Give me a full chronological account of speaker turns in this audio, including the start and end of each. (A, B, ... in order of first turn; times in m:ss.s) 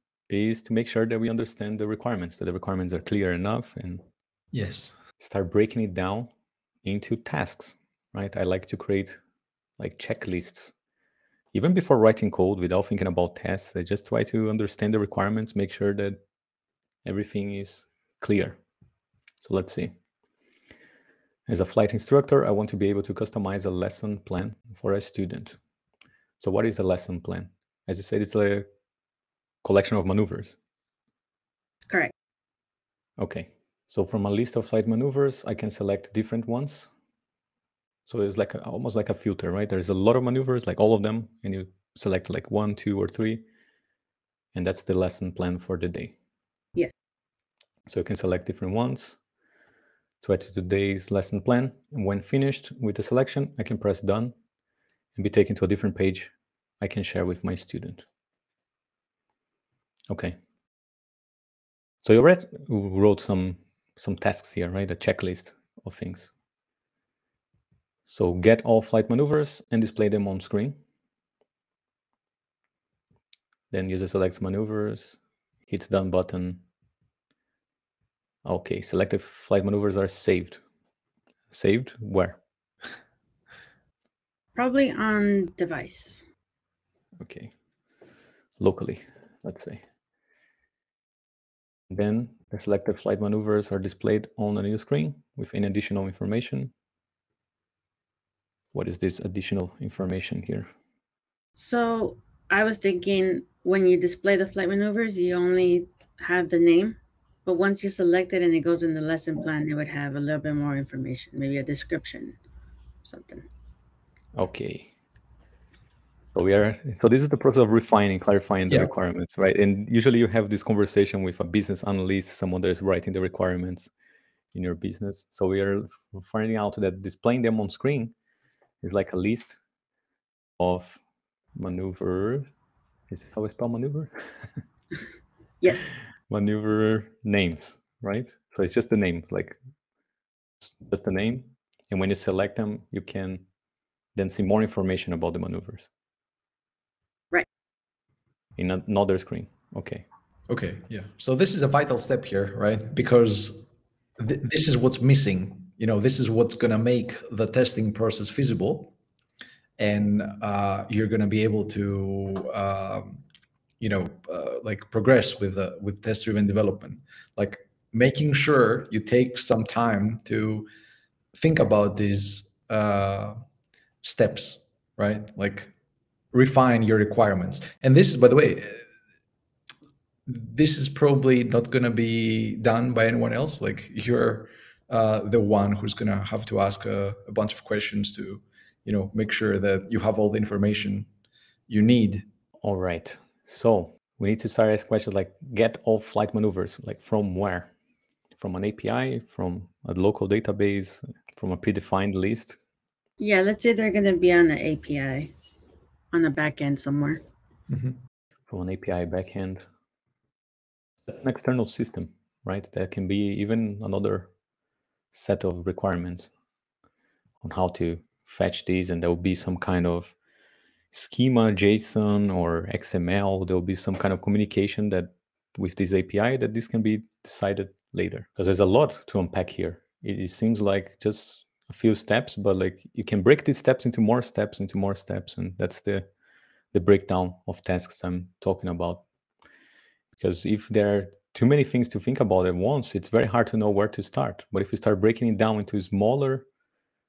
0:00.3-0:04.0 A
0:04.5-0:04.9 B
0:05.2-0:06.3 A
0:06.8-0:09.2 A
0:09.8-0:10.7 A
0:11.5-0:16.2 A
0:17.0-0:18.6 A
0:19.4-0:19.9 A
0:21.5-0:25.6 A
0:26.4-0:28.7 A
0:29.6-0:30.6 A
0:33.2-0:36.9 A
0:38.1-0:43.4 A
0:44.5-0:46.1 A
0:47.9-0:49.2 A
0:50.2-0:54.3 A
0:55.2-0:58.0 A
1:00.1-1:00.4 A
1:02.0-1:06.3 A
1:08.1-1:10.8 A
1:13.7-1:16.6 A
1:18.4-1:20.6 A
1:21.5-1:22.4 A
1:24.6-1:26.2 C
1:27.2-1:27.5 A
1:28.6-1:29.8 A
1:31.9-1:36.7 A
1:38.7-1:40.7 A
1:41.6-1:52.4 C
1:53.0-1:53.5 C
1:54.4-1:54.9 A
1:56.3-2:03.9 A
2:04.5-2:08.1 A
2:08.8-2:09.6 A
2:10.6-2:11.0 A
2:11.6-2:12.5 A
2:13.1-2:14.1 A
2:15.6-2:15.9 C
2:16.3-2:19.6 A
2:20.6-2:23.4 A
2:24.2-2:25.9 A
2:28.6-2:30.1 A
2:30.5-2:33.7 B
2:34.2-2:38.9 B
2:39.8-2:43.2 B
2:43.8-2:50.7 B
2:51.3-2:53.4 B
2:54.0-2:55.7 B
2:56.3-2:58.8 B
3:00.3-3:11.1 B
3:11.7-3:12.3 B
3:12.6-3:17.7 A
3:18.4-3:22.6 A
3:23.2-3:25.3 C
3:26.1-3:27.2 C
3:27.7-3:28.0 B
3:28.5-3:29.6 A
3:31.1-3:34.3 A
3:35.1-3:36.3 A
3:37.4-3:40.2 A
3:40.9-3:56.1 A
3:56.7-3:59.0 A
4:00.2-4:06.5 A